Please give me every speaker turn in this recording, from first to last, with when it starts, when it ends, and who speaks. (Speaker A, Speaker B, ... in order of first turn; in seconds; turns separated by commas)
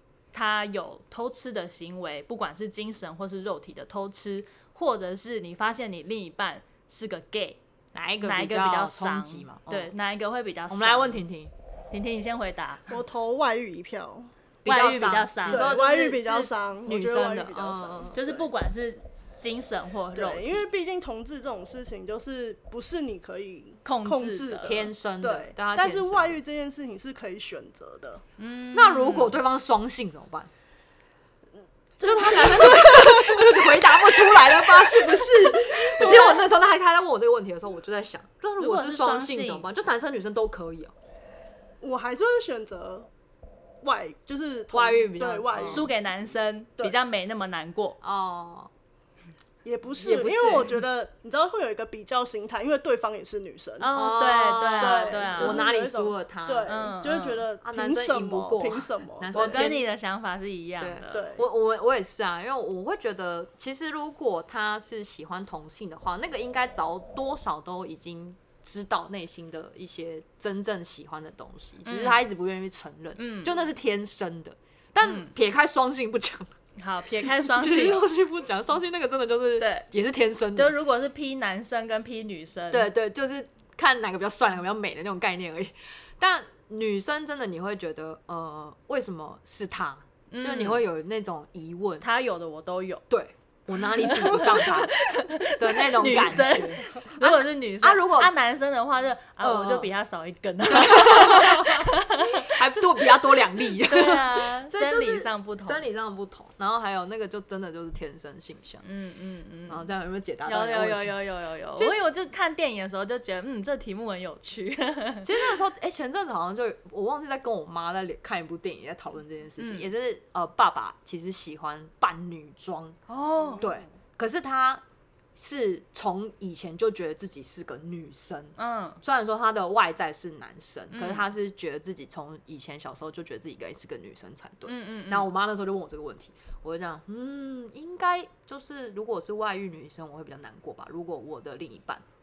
Speaker A: 0.3-7.6, Speaker B: 7.9-9.9, Speaker A: 8.2-11.2, Speaker B: 10.7-11.5, Speaker A: 11.9-13.0, Speaker C: 12.9-14.3, Speaker B: 14.6-18.2, Speaker A: 14.7-15.7, Speaker C: 15.5-18.5, Speaker A: 18.1-20.6, Speaker C: 20.1-28.2, Speaker A: 23.9-24.8, Speaker B: 24.6-26.4, Speaker A: 28.4-29.4, Speaker B: 28.7-30.5, Speaker C: 32.0-33.5, Speaker B: 32.0-40.9, Speaker C: 35.9-36.4, Speaker A: 36.0-36.3, Speaker A: 38.6-39.7, Speaker C: 41.8-43.1, Speaker C: 43.8-45.9, Speaker B: 44.7-45.9, Speaker A: 45.6-48.0, Speaker B: 48.0-48.7, Speaker C: 49.6-53.9, Speaker B: 50.0-50.8, Speaker A: 53.8-55.6, Speaker B: 53.9-56.9, Speaker C: 54.8-59.8, Speaker A: 56.7-57.5, Speaker B: 57.6-59.8, Speaker A: 59.3-61.3, Speaker B: 60.8-76.5, Speaker C: 61.1-61.5, Speaker A: 71.8-72.2, Speaker A: 73.2-73.6, Speaker A: 75.0-75.3, Speaker A: 76.8-78.1, Speaker B: 77.2-80.8, Speaker A: 79.6-79.9, Speaker A: 80.5-82.9, Speaker B: 82.7-92.1, Speaker A: 90.3-90.8, Speaker A: 92.0-93.0, Speaker B: 93.1-98.4, Speaker A: 93.9-105.8, Speaker B: 99.4-99.9, Speaker B: 100.7-101.8, Speaker B: 102.4-108.8, Speaker A: 108.8-109.9, Speaker B: 109.7-111.2, Speaker A: 110.5-115.3, Speaker B: 115.2-123.0, Speaker A: 119.6-119.9, Speaker A: 123.1-123.7, Speaker C: 123.5-123.7, Speaker B: 123.6-124.8, Speaker B: 125.4-142.0, Speaker A: 128.6-129.0, Speaker A: 130.9-131.3, Speaker A: 134.7-135.3